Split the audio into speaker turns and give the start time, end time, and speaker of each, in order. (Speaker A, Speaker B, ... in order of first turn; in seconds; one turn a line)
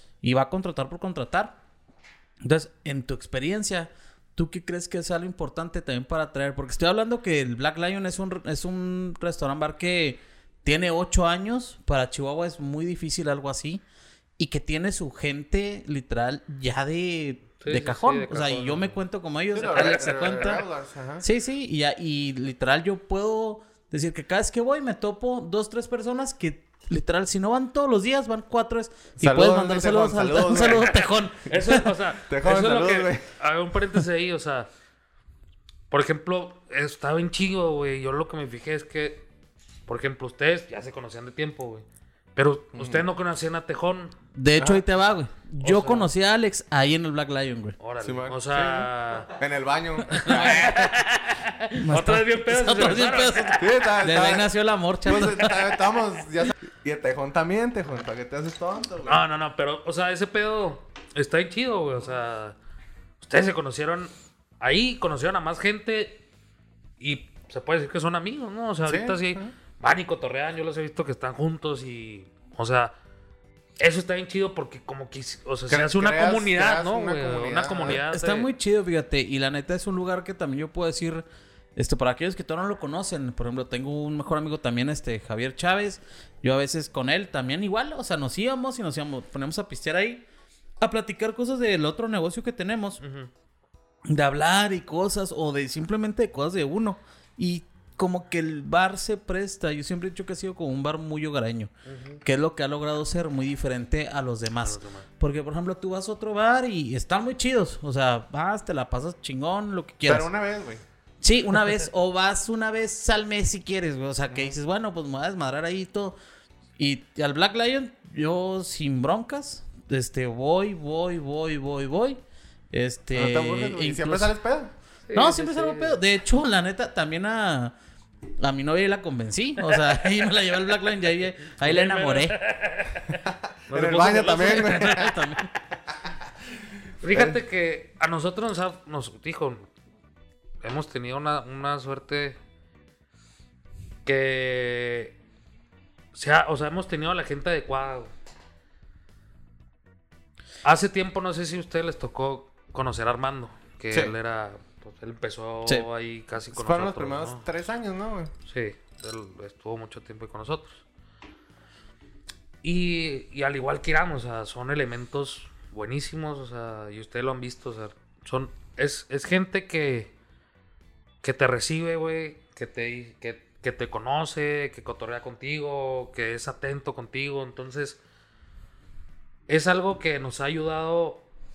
Speaker A: 0.2-1.6
Speaker A: 2.4-13.8
Speaker A: 14.4-20.6
Speaker B: 17.6-19.0
Speaker C: 19.5-21.2
Speaker B: 19.7-20.1
Speaker A: 21.2-31.9
Speaker C: 29.2-30.9
Speaker B: 31.5-34.7
Speaker C: 32.2-33.3
Speaker B: 35.9-39.3
Speaker B: 39.9-41.9
Speaker B: 42.4-44.2
Speaker C: 42.7-43.1
Speaker A: 44.4-47.8
Speaker C: 44.6-44.8
Speaker B: 45.6-46.1
Speaker B: 47.8-49.3
Speaker C: 48.0-51.0
Speaker B: 50.1-53.6
Speaker A: 51.8-55.8
Speaker C: 53.5-54.5
Speaker C: 55.0-59.2
Speaker B: 59.1-62.6
Speaker B: 63.2-66.2
Speaker B: 67.0-72.9
Speaker C: 68.8-69.5
Speaker B: 73.8-78.5
Speaker C: 75.7-78.0
Speaker A: 78.1-90.3
Speaker A: 90.8-93.0
Speaker B: 93.0-93.3
Speaker A: 94.1-101.7
Speaker B: 101.9-102.2
Speaker A: 102.2-110.3
Speaker B: 104.6-105.1
Speaker C: 110.0-110.8
Speaker A: 111.2-116.2
Speaker A: 116.8-122.2
Speaker A: 122.7-124.3
Speaker C: 123.2-124.7
Speaker B: 125.1-126.0
Speaker A: 125.1-127.8
Speaker A: 128.4-132.4
Speaker B: 131.6-135.0
Speaker C: 133.7-135.1
Speaker A: 134.3-135.5
Speaker B: 137.0-139.7
Speaker C: 137.1-137.4
Speaker B: 140.6-142.4
Speaker B: 144.1-145.2
Speaker B: 146.1-148.1
Speaker B: 150.6-157.5
Speaker C: 156.5-158.3
Speaker B: 158.5-160.8
Speaker B: 162.6-170.1
Speaker B: 171.2-178.0
Speaker B: 179.5-181.2